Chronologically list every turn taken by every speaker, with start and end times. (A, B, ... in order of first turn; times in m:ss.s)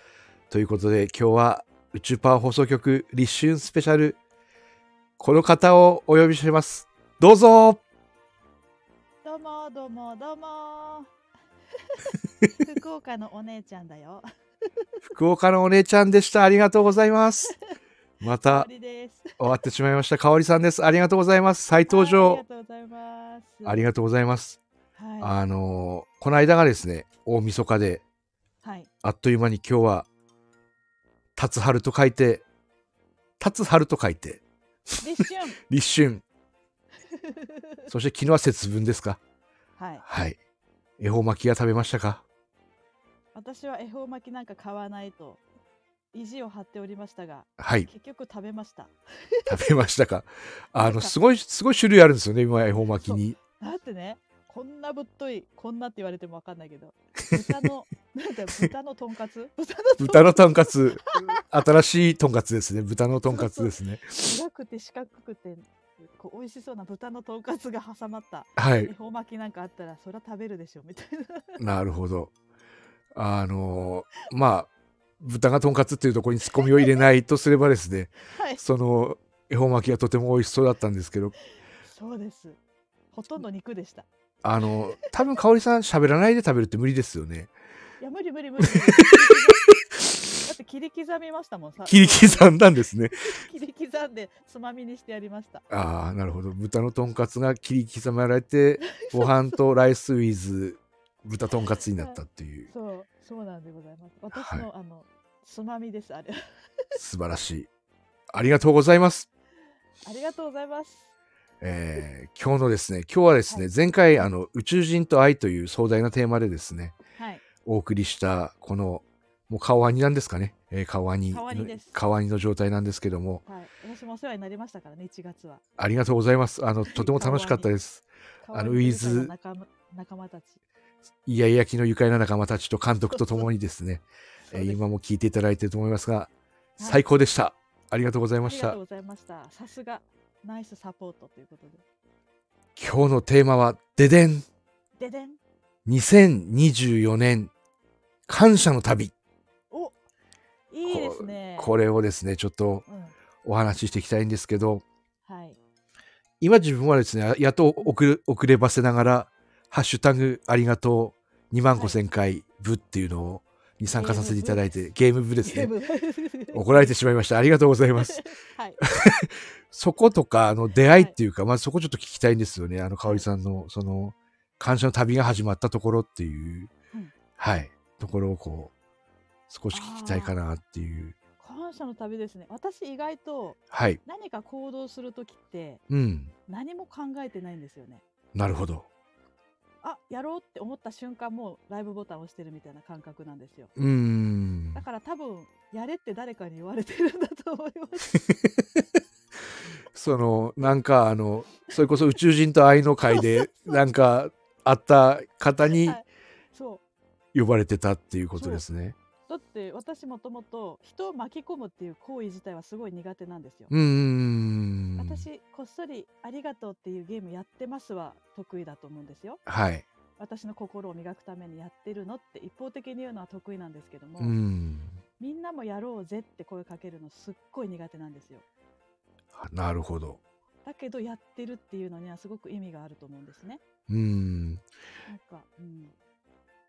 0:00.5-0:04.2 A
0:05.2-0:07.8 A
0:09.2-0:11.1 B
0:11.9-0:14.2 B
0:15.0-0:17.6 A
0:18.2-0:18.7 A
0:18.5-0:19.4 B
0:19.4-0:22.4 A
0:21.9-0:23.9 B
0:23.6-0:24.6 A
0:25.0-0:25.4 B
0:25.2-0:28.0 A
0:28.6-0:28.9 B
0:29.0-0:30.1 A
0:31.4-0:32.4 A
0:33.4-0:34.4 A
0:35.0-0:35.6 B
0:35.7-0:36.2 A
0:37.1-0:37.6 B
0:37.9-0:39.2 A
0:39.8-0:40.0 B
0:40.0-0:40.4 A
0:41.0-0:42.2 A
0:43.3-0:45.4 B
0:46.1-0:49.5 B
0:47.6-0:47.9 A
0:49.4-0:53.4 A
0:50.8-0:51.2 B
0:52.9-1:01.4 B
1:00.0-1:04.4 A
1:03.2-1:11.6 B
1:08.6-1:08.9 A
1:11.6-1:12.3 A
1:13.1-1:21.3 A
1:16.6-1:16.8 B
1:18.3-1:18.6 B
1:21.8-1:22.6 B
1:23.1-1:24.1 B
1:24.4-1:27.5 A
1:25.0-1:25.2 B
1:28.0-1:29.8 B
1:28.6-1:29.7 A
1:30.4-1:32.6 B
1:31.9-1:33.2 A
1:33.2-1:35.6 B
1:35.7-1:42.7 A
1:38.8-1:39.6 B
1:42.0-1:46.4 B
1:44.3-1:44.7 A
1:46.9-1:47.7 A
1:48.3-1:49.3 A
1:50.0-1:51.1 B
1:51.6-1:56.9 A
1:53.5-1:54.3 B
1:57.2-1:57.4 B
1:57.6-2:03.4 A
2:01.3-2:02.0 B
2:03.4-2:05.6 B
2:05.8-2:09.3 A
2:06.9-2:07.7 B
2:08.4-2:10.6 B
2:11.2-2:18.8 A
2:13.1-2:13.5 B
2:14.5-2:14.8 B
2:16.8-2:17.2 B
2:18.4-2:21.8 B
2:22.8-2:24.4 A
2:25.0-2:25.4 B
2:25.8-2:27.5 A
2:28.3-2:29.1 A
2:29.7-2:30.0 B
2:30.7-2:31.8 B
2:30.8-2:32.8 A
2:32.9-2:33.2 B
2:33.4-2:34.8 A
2:35.2-2:35.6 B
2:36.4-2:45.7 A
2:41.7-2:42.0 B
2:43.9-2:44.8 B
2:45.4-2:46.9 B
2:46.5-2:48.2 A
2:48.0-2:48.8 B
2:48.8-2:56.7 A
2:50.8-2:51.2 B
2:57.4-2:58.7 A
2:59.5-3:01.2 A
2:59.7-3:00.4 B
3:01.4-3:05.8 B
3:03.7-3:04.0 A
3:05.9-3:06.3 A
3:06.5-3:08.0 B
3:08.3-3:08.9 A
3:09.8-3:13.7 B
3:13.8-3:14.8 A
3:14.7-3:18.2 B
3:19.9-3:26.0 A
3:23.1-3:23.8 B
3:25.7-3:26.8 B
3:27.3-3:29.0 A
3:28.4-3:28.6 B
3:29.3-3:33.7 B
3:33.7-3:35.2 A
3:35.0-3:39.4 B
3:39.5-3:39.8 A
3:40.2-3:44.4 B
3:44.2-3:45.0 A
3:45.2-3:48.4 B
3:49.4-3:50.2 A
3:50.6-3:53.6 B
3:53.9-3:54.6 A
3:55.1-3:55.9 B